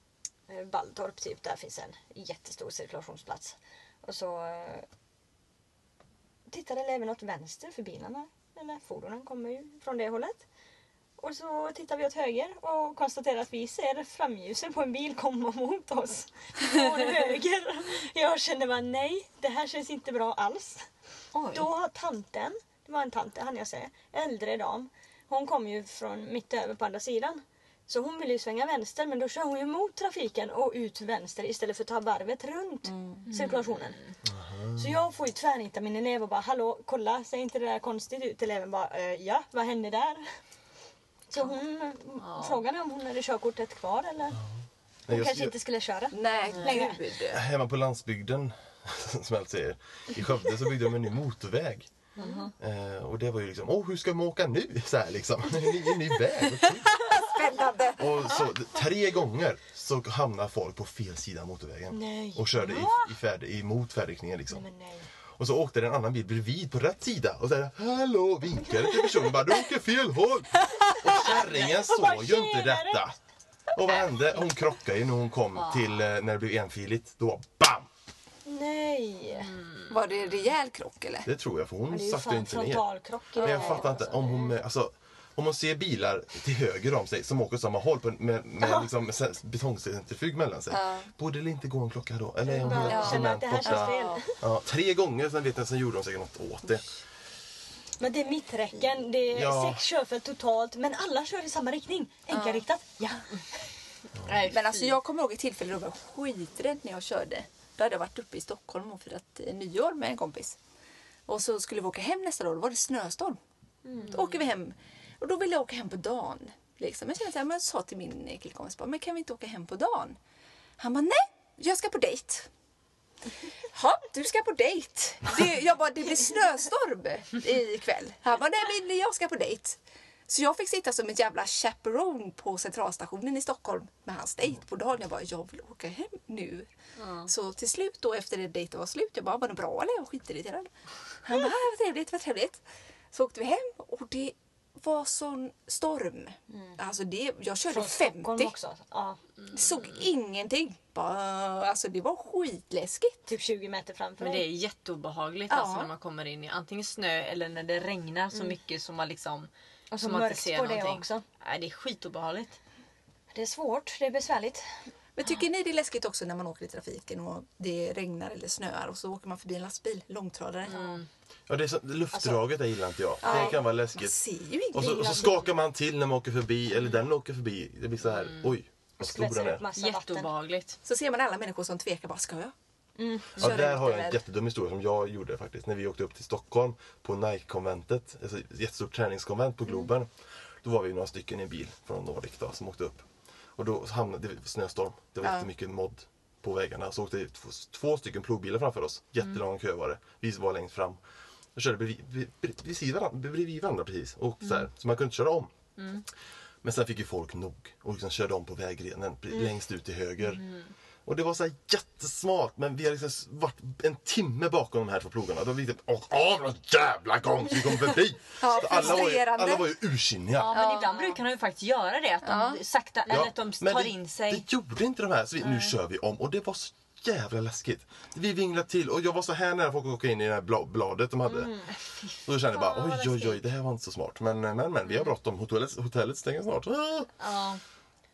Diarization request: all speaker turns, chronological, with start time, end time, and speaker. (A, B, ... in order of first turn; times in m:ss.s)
0:00.5-0:04.9 A
0:06.5-0:10.5 A
0:11.2-0:20.8 A
0:21.3-0:21.7 B
0:21.5-0:34.0 A
0:32.8-0:33.2 C
0:33.3-0:34.1 B
0:34.2-0:34.9 D
0:34.8-0:40.2 A
0:41.3-0:44.4 A
0:42.2-0:42.6 B
0:45.1-0:45.5 D
0:45.1-0:47.0 A
0:46.1-0:47.4 C
0:46.5-0:46.9 B
0:47.3-0:51.9 D
0:52.2-0:52.5 B
0:52.2-0:52.5 A
0:52.6-0:57.0 D
0:57.0-0:58.3 C
0:58.0-1:04.7 D
1:01.9-1:03.1 A
1:04.5-1:05.1 A
1:05.4-1:13.2 D
1:10.9-1:13.0 A
1:13.7-1:17.9 D
1:15.6-1:16.0 B
1:18.4-1:19.5 A
1:19.9-1:21.3 C
1:21.2-1:22.9 D
1:21.9-1:24.5 A
1:23.4-1:36.9 D
1:23.4-1:24.1 C
1:30.7-1:31.1 C
1:32.4-1:34.3 A
1:32.7-1:34.2 C
1:38.0-1:43.4 A
1:39.3-1:39.8 D
1:42.3-1:42.6 C
1:44.2-1:45.0 B
1:44.4-1:50.6 C
1:51.3-1:53.4 C
1:53.9-1:54.1 A
1:54.0-2:00.2 C
2:00.8-2:02.5 C
2:03.7-2:16.7 C
2:17.0-2:17.3 B
2:17.2-2:20.7 C
2:21.2-2:28.5 C
2:26.5-2:26.8 A
2:27.7-2:29.2 A
2:29.5-2:33.3 C
2:33.3-2:34.5 A
2:34.2-2:42.6 B
2:35.5-2:35.9 C
2:39.9-2:41.2 A
2:43.3-2:44.6 A
2:45.2-2:51.0 C
2:50.7-2:51.1 B
2:51.5-2:54.2 D
2:52.1-2:52.4 A
2:53.2-2:55.4 C
2:53.2-2:53.6 A
2:54.7-2:59.6 D
2:54.8-2:55.5 A
2:58.1-2:58.5 B
2:59.0-3:00.3 A
2:59.8-3:00.8 B
3:00.8-3:02.5 C
3:03.0-3:03.5 A
3:03.4-3:04.2 C
3:03.4-3:10.1 D
3:10.6-3:13.0 D
3:13.6-3:21.0 D
3:15.2-3:15.5 C
3:21.5-3:25.5 D
3:25.8-3:26.0 B
3:26.6-3:30.4 D
3:30.3-3:30.7 B
3:31.0-3:40.5 D
3:38.4-3:39.7 C
3:40.4-3:44.4 B
3:40.5-3:41.2 C
3:42.2-3:42.6 C
3:43.1-3:51.5 D
3:45.4-3:45.7 B
3:51.3-3:51.7 A
3:51.9-3:53.4 B
3:52.2-3:57.1 D
3:57.2-3:57.6 B